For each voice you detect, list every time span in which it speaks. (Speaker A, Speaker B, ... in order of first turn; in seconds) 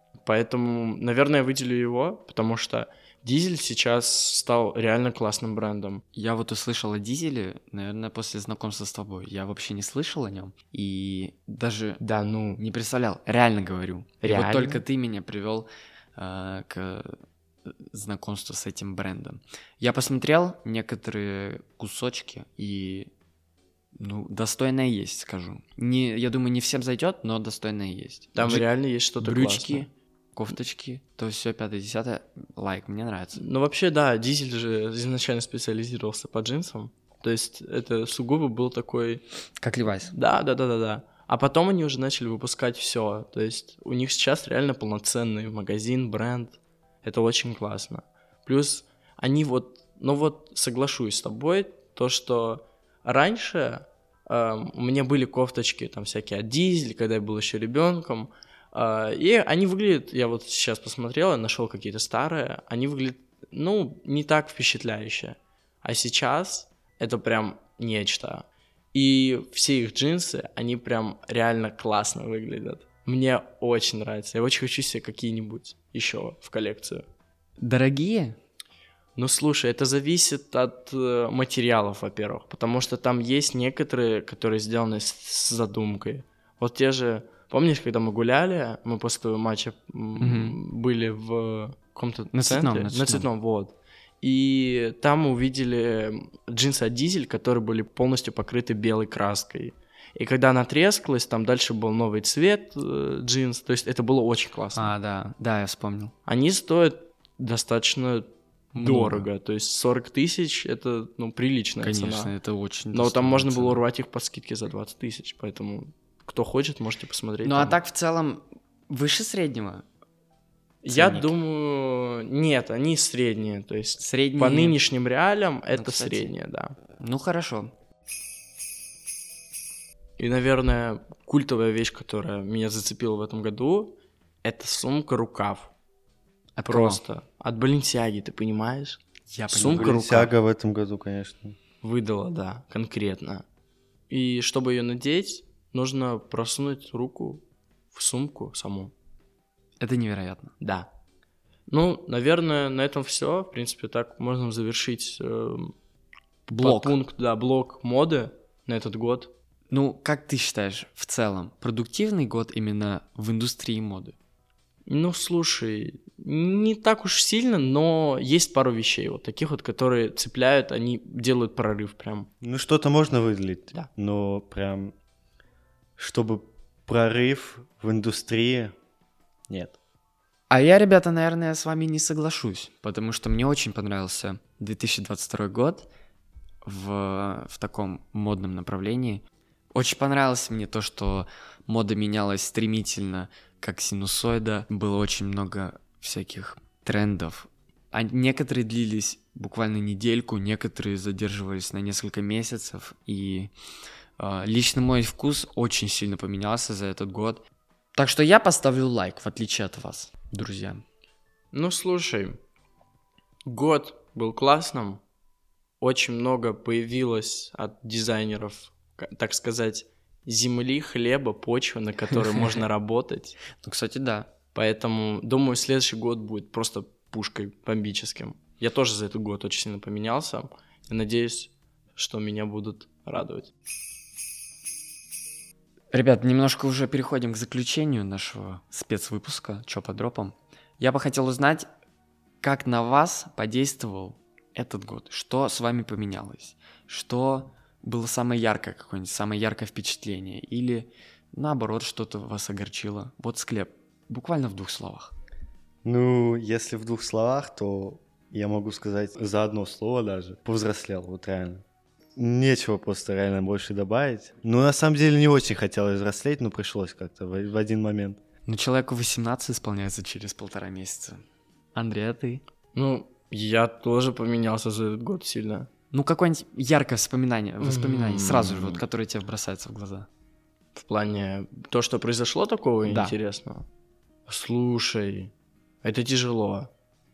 Speaker A: 0.2-6.0, 12.0-12.6, 14.2-14.8, 28.4-29.9, 33.4-39.2, 40.1-77.0, 79.2-104.9, 106.3-112.3, 112.9-117.8, 120.8-126.8, 130.2-135.7, 136.7-140.3, 141.8-143.4, 144.1-148.9, 150.6-150.9, 151.7-155.7, 156.6-159.3, 164.9-172.3, 211.5-212.4, 213.5-215.0, 215.8-223.4, 224.5-233.5, 272.7-275.7, 277.6-278.8, 280.8-283.7, 284.3-285.3, 285.8-286.7
Speaker B: 6.2-12.0, 12.6-23.1, 24.0-28.7, 29.2-33.4, 39.6-40.1, 77.6-78.4, 90.2-90.6, 92.3-93.3, 104.8-106.1, 108.7-109.3, 111.8-113.8, 117.4-119.8, 120.9-121.3, 124.0-124.8, 125.7-126.3, 127.0-127.7, 136.6-137.0, 139.3-139.9, 149.8-150.5, 156.5-156.9, 159.7-164.2, 180.5-185.9, 186.6-203.5, 204.2-207.4, 207.9-210.8, 223.6-224.3, 235.9-241.7, 242.4-255.2, 268.5-271.2, 271.8-272.4, 275.9-280.1, 282.9-283.2
Speaker C: 139.6-141.6, 172.4-174.9, 176.0-178.8, 179.5-179.8, 255.8-261.6, 262.2-268.2